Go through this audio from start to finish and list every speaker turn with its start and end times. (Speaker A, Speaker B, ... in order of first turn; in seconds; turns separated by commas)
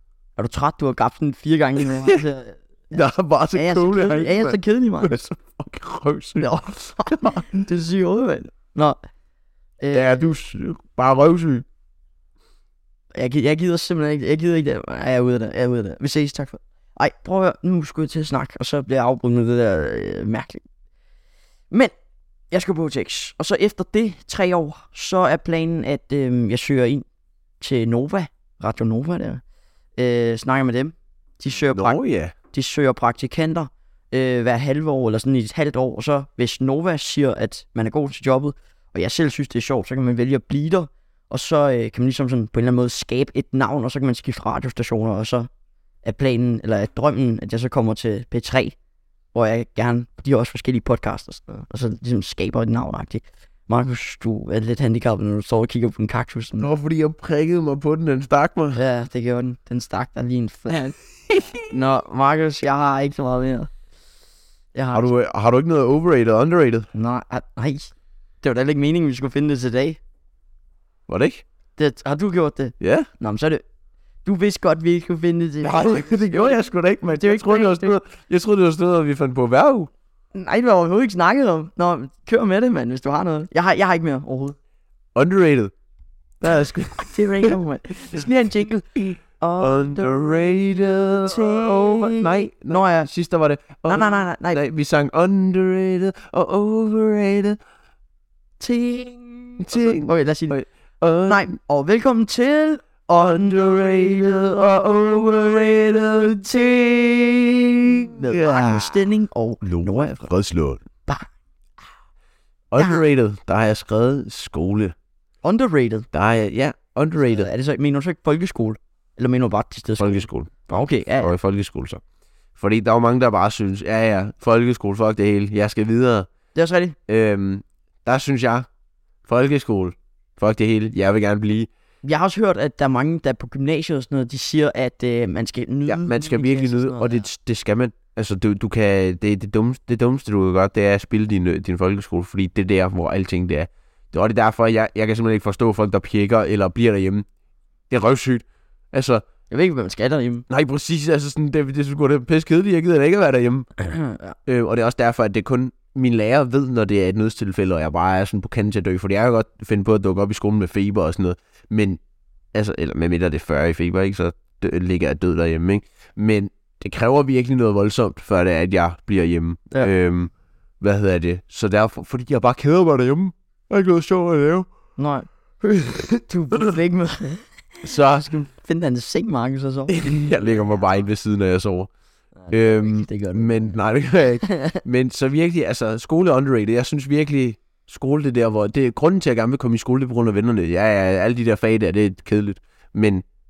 Speaker A: 0.4-2.9, Speaker B: 2.9-6.5, Speaker A: 3.5-5.1, Speaker A: 6.4-9.0, Speaker B: 7.1-7.4, Speaker A: 9.8-10.3, Speaker B: 9.9-11.7, Speaker A: 13.1-20.6, Speaker A: 22.5-27.0, Speaker A: 27.6-29.4, Speaker A: 30.0-32.0, Speaker B: 31.7-32.3, Speaker A: 32.5-45.5, Speaker A: 46.0-48.8, Speaker A: 49.3-56.7, Speaker B: 56.6-58.8, Speaker A: 58.7-60.9, Speaker B: 61.3-61.6, Speaker A: 61.7-63.7, Speaker A: 64.7-65.1, Speaker B: 64.9-66.9, Speaker A: 66.9-70.0, Speaker B: 71.1-71.4, Speaker A: 71.8-73.6, Speaker B: 72.8-73.1, Speaker A: 74.2-76.6, Speaker B: 75.6-79.9, Speaker A: 77.1-78.0, Speaker A: 80.3-84.5, Speaker B: 85.1-85.7, Speaker B: 86.4-87.6, Speaker A: 86.9-90.3, Speaker B: 89.6-97.6, Speaker A: 91.2-93.1, Speaker A: 93.9-94.6, Speaker A: 98.6-100.5, Speaker B: 99.6-101.5, Speaker A: 101.3-110.3, Speaker B: 103.2-106.6, Speaker B: 107.8-109.0, Speaker B: 109.6-110.8, Speaker B: 112.7-114.9, Speaker A: 112.8-113.0, Speaker A: 115.4-116.1, Speaker B: 116.1-117.5, Speaker A: 117.2-121.3, Speaker B: 120.0-120.5, Speaker B: 121.2-122.0, Speaker B: 122.5-126.3, Speaker A: 126.5-127.0, Speaker B: 127.1-128.7, Speaker B: 129.2-131.7, Speaker A: 132.0-137.2, Speaker B: 135.9-147.2, Speaker B: 147.9-149.2, Speaker A: 149.5-150.4, Speaker B: 150.5-153.7, Speaker A: 153.8-154.3, Speaker B: 154.4-162.0, Speaker B: 162.5-174.7, Speaker A: 175.0-177.4, Speaker B: 177.8-178.5, Speaker A: 178.5-180.4, Speaker B: 179.9-181.9, Speaker A: 182.4-183.7, Speaker B: 182.5-193.2, Speaker A: 184.4-184.8